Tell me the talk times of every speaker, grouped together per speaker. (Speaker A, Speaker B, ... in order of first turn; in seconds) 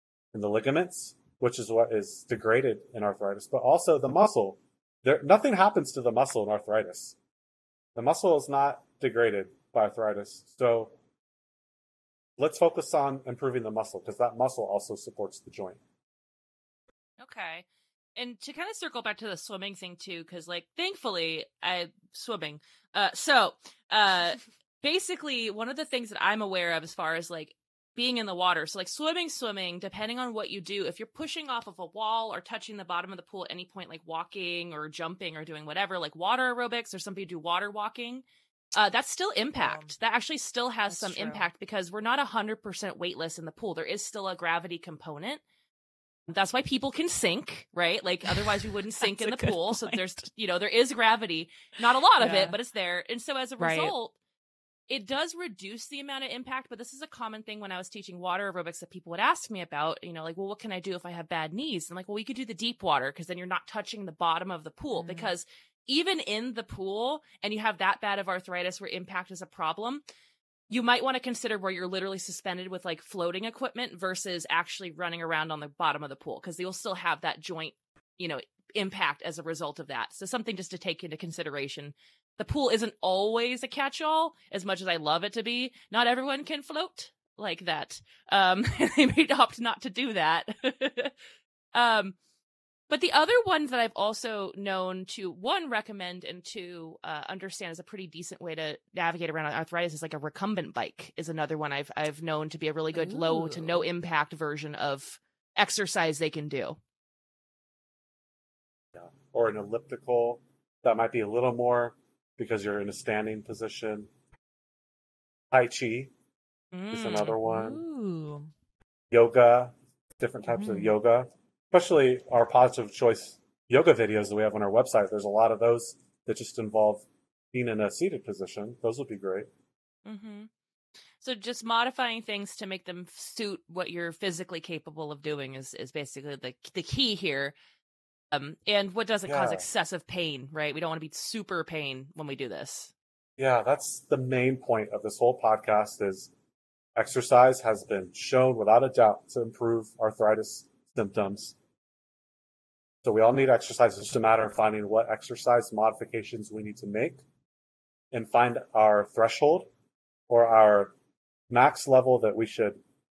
Speaker A: 0.3-7.2, 8.0-11.0, 12.4-15.8, 109.0-114.1, 115.5-116.1, 116.9-117.8, 119.1-129.5, 139.3-139.7, 143.4-146.3, 146.9-151.6, 153.0-157.2, 158.1-159.7, 160.3-160.9, 161.5-162.8
Speaker B: 17.2-17.6, 18.2-38.2, 38.8-45.4, 46.3-54.1, 54.9-70.0, 70.7-91.1, 91.7-92.2, 92.9-106.8, 116.7-117.3, 130.1-130.5, 131.2-137.6, 138.3-142.9
Speaker C: 39.6-39.9, 40.9-41.5, 48.2-50.0, 52.2-52.6, 53.6-53.9, 64.9-65.3, 102.9-103.8, 117.3-118.5, 120.5-121.0